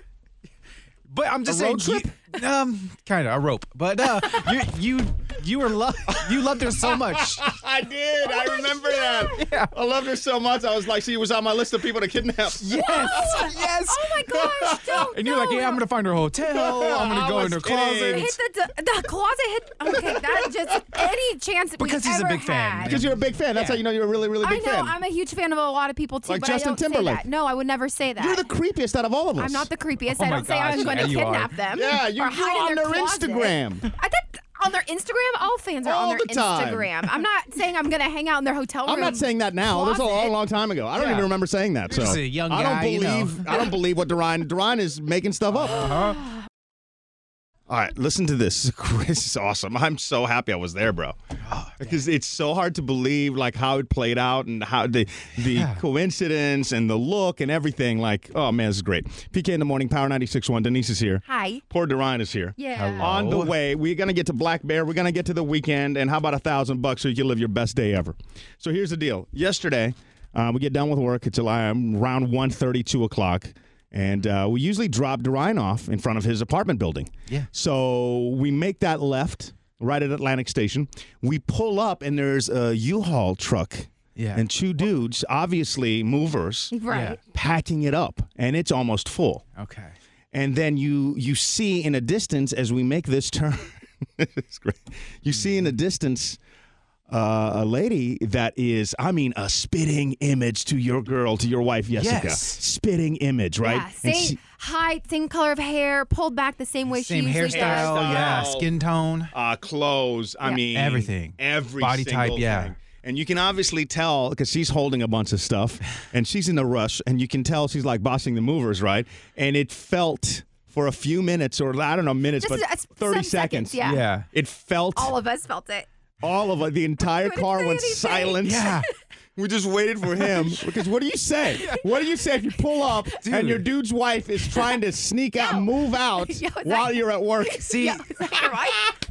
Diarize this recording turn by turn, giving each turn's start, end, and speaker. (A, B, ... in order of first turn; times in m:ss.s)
0:01.1-0:07.5 A
0:01.5-0:02.1 B
0:04.2-0:04.5 C
0:07.2-0:13.2 B
0:08.2-0:09.3 C
0:09.4-0:09.7 A
0:12.6-0:14.1 A
0:12.8-0:15.8 C
0:14.4-0:14.8 B
0:15.1-0:18.4 A
0:16.5-0:18.3 B
0:18.1-0:23.0 C
0:21.8-0:23.8 A
0:22.8-0:25.0 B
0:24.4-0:28.5 C
0:26.2-0:27.2 B
0:28.2-0:29.7 B
0:29.4-0:40.4 C
0:30.1-0:31.6 A
0:31.7-0:33.9 B
0:35.8-0:36.9 B
0:38.8-0:45.9 B
0:41.0-0:41.3 A
0:41.9-0:43.6 A
0:45.5-0:46.2 A
0:47.7-0:51.2 B
0:51.4-0:52.0 A
0:51.8-1:29.4 B
0:55.4-0:55.8 A
1:01.2-1:01.6 C
1:02.6-1:03.1 C
1:02.8-1:03.6 A
1:24.2-1:24.4 A
1:26.7-1:27.2 C
1:26.9-1:27.2 A
1:29.6-1:29.9 A
1:30.3-1:36.4 B
1:35.3-1:35.7 A
1:37.1-1:44.4 B
1:41.9-1:42.6 A
1:43.6-1:48.5 C
1:46.9-1:49.3 A
1:47.4-1:48.7 B
1:49.3-2:03.8 B
1:50.7-1:52.7 A
2:02.4-2:04.0 C
2:03.8-2:04.3 A
2:04.3-2:05.1 B
2:04.9-2:05.9 C
2:06.2-2:08.7 B
2:07.0-2:08.8 C
2:08.4-2:08.8 A
2:09.4-2:17.6 B
2:13.2-2:13.7 A
2:15.4-2:18.9 C
2:17.6-2:18.0 A